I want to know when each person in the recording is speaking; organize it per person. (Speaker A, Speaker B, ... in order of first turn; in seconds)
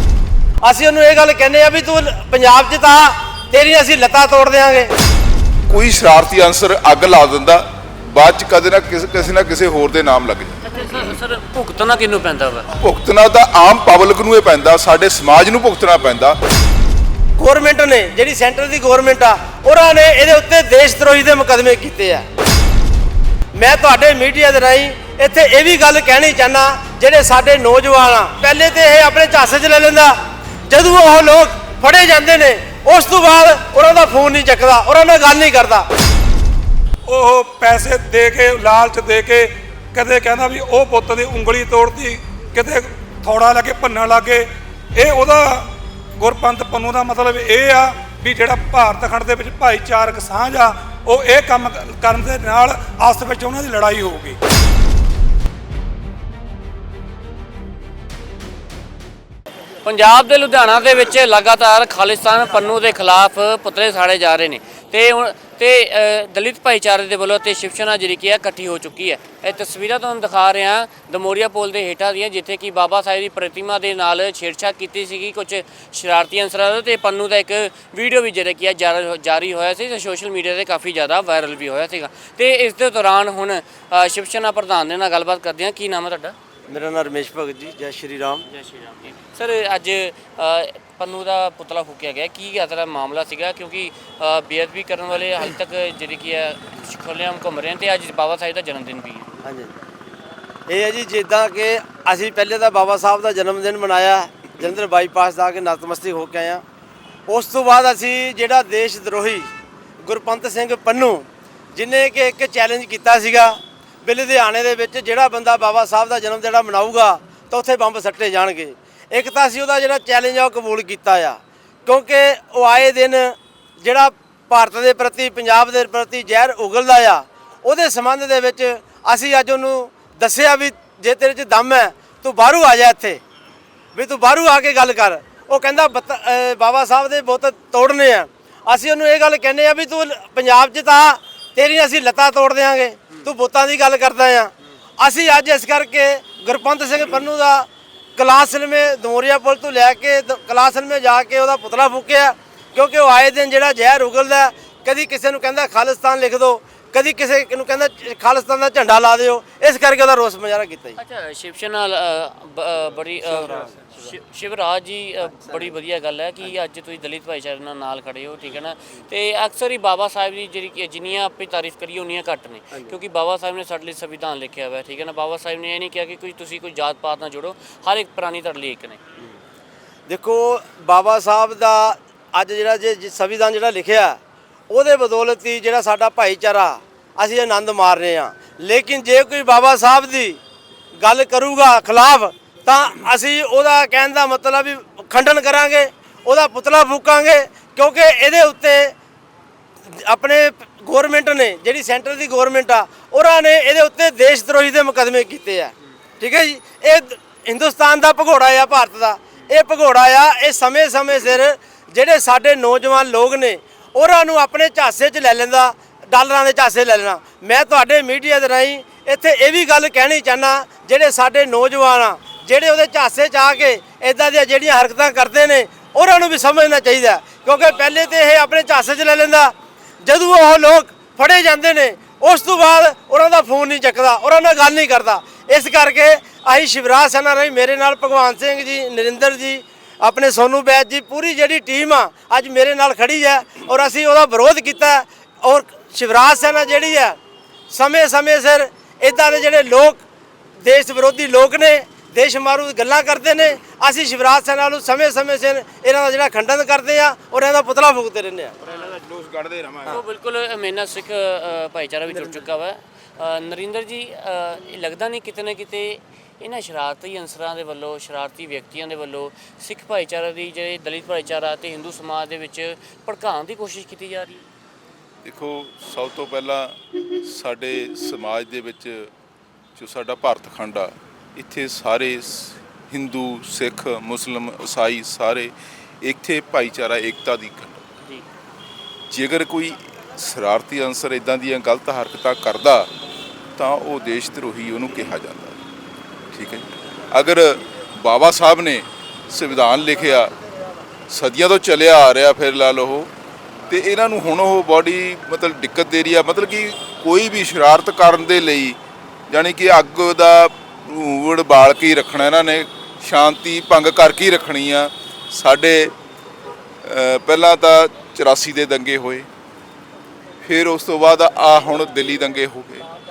Speaker A: 0.6-4.9, 17.4-22.3, 23.6-30.2, 30.7-35.9, 86.7-88.5, 99.4-99.7, 100.7-106.6, 107.3-109.5, 110.0-133.2, 133.9-161.0, 180.1-184.2, 184.7-190.4, 191.0-198.9, 199.9-247.2, 247.7-250.0, 250.6-258.5
Speaker B: 5.7-10.6, 12.8-16.4, 258.6-260.0, 275.2-279.1, 279.8-287.8, 289.1-292.9, 293.6-295.6, 296.3-300.3, 301.1-303.1, 303.7-308.8, 309.3-315.9, 316.8-319.3, 320.4-322.9
Speaker C: 10.6-12.7, 59.8-86.4, 88.5-99.3, 161.0-179.0, 259.9-274.4
Speaker D: 37.1-54.4